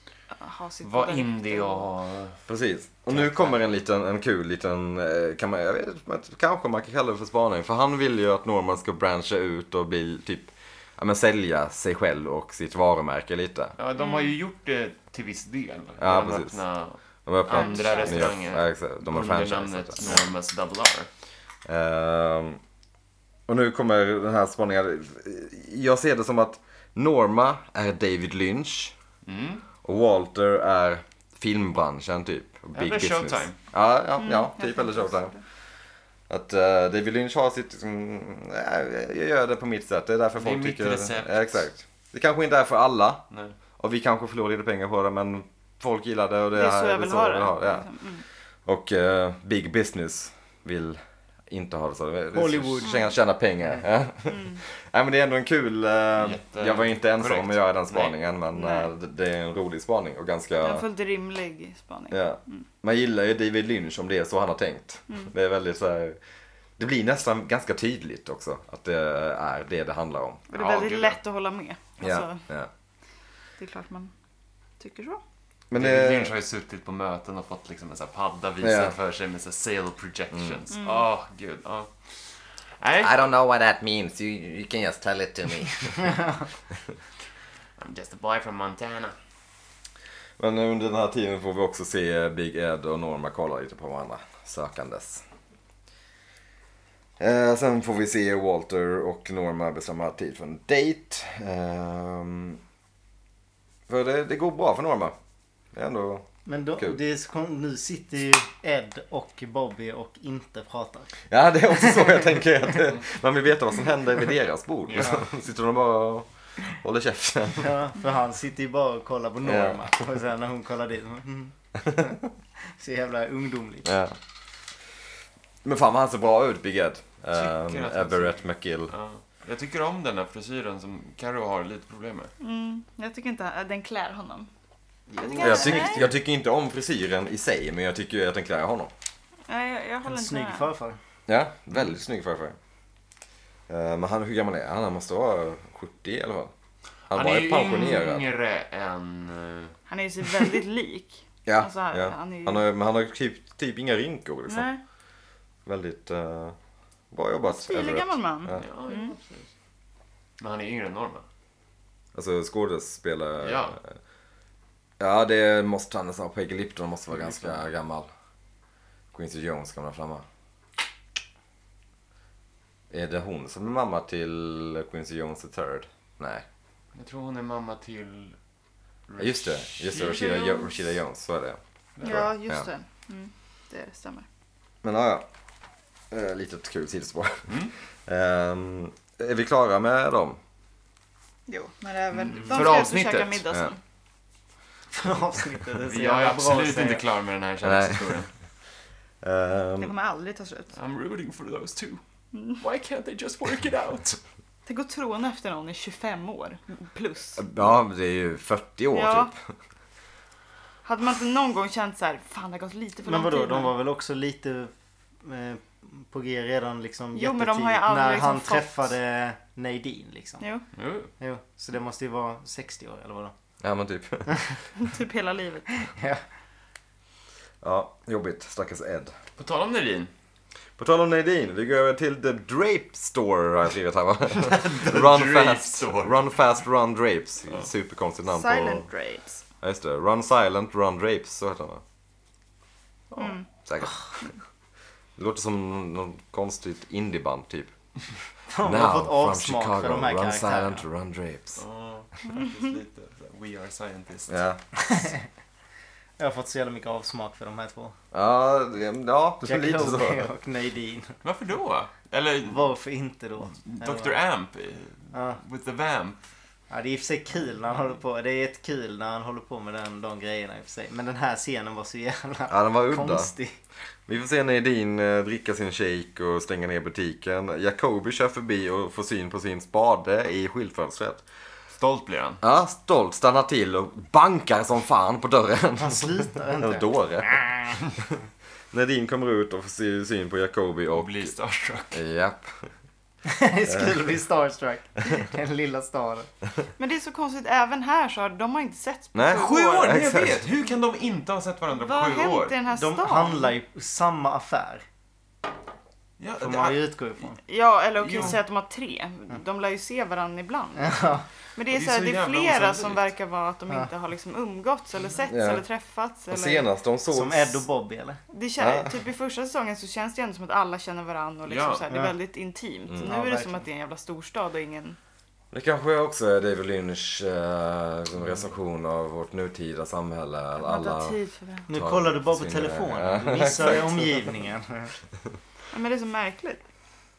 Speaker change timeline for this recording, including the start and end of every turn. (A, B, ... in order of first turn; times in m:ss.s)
0:00.3-0:01.9 A
0:00.8-0:02.4 B
0:02.5-0:13.8 C
0:03.1-0:03.6 B
0:13.8-0:21.1 B
0:14.0-0:14.3 A
0:16.0-0:16.6 C
0:17.2-0:20.2 C
0:17.5-0:18.3 A
0:21.6-0:22.6 C
0:23.5-0:28.9 C
0:29.2-0:29.6 B
0:29.8-0:35.4 C
0:32.7-0:33.6 B
0:34.2-0:35.4 A
0:36.3-0:43.2 C
0:40.4-0:41.6 B
0:43.3-0:43.6 B
0:43.8-0:47.9 C
0:46.5-0:48.2 A
0:48.6-1:00.8 C
0:52.3-0:53.0 D
0:54.2-0:54.6 A
0:56.2-0:58.1 B
0:58.5-0:58.9 A
1:00.6-1:02.6 A
1:02.1-1:06.2 C
1:06.8-1:10.4 C
1:10.5-1:12.4 A
1:10.5-1:11.2 B
1:12.0-1:12.7 C
1:13.6-1:14.1 A
1:14.8-1:15.2 A
1:15.7-1:16.3 C
1:15.7-1:23.3 B
1:18.6-1:18.9 C
1:20.3-1:20.6 C
1:20.7-1:21.0 A
1:23.0-1:26.1 E
1:26.1-1:26.4 D
1:27.8-1:29.2 B
1:30.4-1:35.2 C
1:37.2-1:42.6 C
1:43.9-1:45.2 C
1:45.7-1:47.0 C
1:46.4-1:51.1 D
1:51.3-1:57.7 C
1:51.7-1:52.1 D
1:54.9-1:55.2 B
1:57.6-2:02.1 D
1:59.4-1:59.8 C
2:01.8-2:02.1 C
2:02.7-2:03.9 D
2:03.8-2:04.2 C
2:05.6-2:08.9 C
2:07.3-2:12.3 B
2:12.4-2:14.5 A
2:15.2-2:16.1 D
2:15.2-2:16.1 A
2:15.2-2:15.6 B
2:15.4-2:18.9 C
2:19.5-2:20.7 A
2:20.0-2:21.0 D
2:21.3-2:22.6 C
2:23.7-2:26.5 C
2:27.1-2:28.2 C
2:27.1-2:29.8 B
2:29.9-2:32.6 A
2:31.4-2:34.7 C
2:34.5-2:34.8 A
2:35.6-2:36.6 C
2:37.1-2:38.6 C
2:37.5-2:39.1 A
2:38.6-2:39.5 B
2:40.4-2:41.2 B
2:42.1-2:43.9 C
2:43.4-2:43.8 B
2:45.0-2:48.1 C
2:49.1-2:50.2 C
2:52.9-2:56.4 C
2:56.9-2:58.4 B
2:59.1-3:00.4 B
2:59.2-3:02.7 C
3:00.0-3:00.7 A
3:02.0-3:02.3 B
3:02.0-3:04.2 A
3:04.8-3:05.3 C
3:06.1-3:10.4 C
3:07.5-3:07.7 B
3:11.5-3:13.8 A
3:12.2-3:13.4 B
3:14.9-3:17.0 D
3:15.8-3:18.3 B
3:17.6-3:18.2 C
3:19.2-3:19.9 C
3:19.8-3:20.7 A
3:20.7-3:22.0 B
3:22.3-3:22.6 A
3:22.6-3:24.2 B
3:24.6-3:27.4 A
3:27.4-3:29.3 C
3:28.9-3:29.3 A
3:30.8-3:33.7 A
3:33.0-3:40.4 D
3:37.1-3:38.8 A
3:40.8-3:41.1 B
3:41.2-3:43.3 D
3:43.6-3:44.4 C
3:44.8-3:45.9 A
3:46.0-3:46.2 D
3:47.6-3:49.1 C
3:49.4-3:50.1 B
3:50.8-3:58.9 C
3:54.4-3:56.3 B
3:58.3-3:59.4 A
3:59.6-4:01.8 C
4:03.2-4:03.4 A
4:03.6-4:04.3 C
4:05.2-4:07.7 C
4:08.5-4:10.8 D
4:08.6-4:11.6 C
4:11.6-4:14.4 B
4:14.3-4:14.6 C
4:14.8-4:15.2 D
4:16.2-4:17.9 D
4:18.1-4:20.3 C
4:19.4-4:21.1 D
4:21.2-4:22.7 B
4:22.4-4:24.2 D
4:23.4-4:26.2 B
4:25.1-4:25.4 D
4:26.7-4:33.6 D
4:32.5-4:33.3 C
4:34.1-4:41.2 C
4:41.7-4:42.4 B
4:42.4-4:47.7 C
4:45.8-4:46.8 D
4:48.7-4:51.3 C
4:50.9-4:52.0 B
4:51.9-4:52.7 C
4:53.2-4:56.3 D
4:56.8-5:00.0 A
4:59.1-5:00.4 C
4:59.3-5:02.5 B
5:01.7-5:03.5 A
5:02.7-5:04.8 D
5:06.2-5:06.8 B
5:06.4-5:07.4 D
5:07.5-5:16.7 A
5:08.0-5:08.4 B
5:10.8-5:11.2 D
5:11.7-5:13.1 B
5:15.3-5:15.6 C
5:16.3-5:17.6 C
5:17.1-5:18.2 D
5:18.3-5:25.0 A
5:18.6-5:18.9 C
5:21.5-5:21.8 B
5:23.0-5:23.6 D
5:25.5-5:31.2 C
5:30.6-5:31.7 A
5:31.7-5:34.9 D
5:31.7-5:34.3 C
5:35.7-5:36.6 A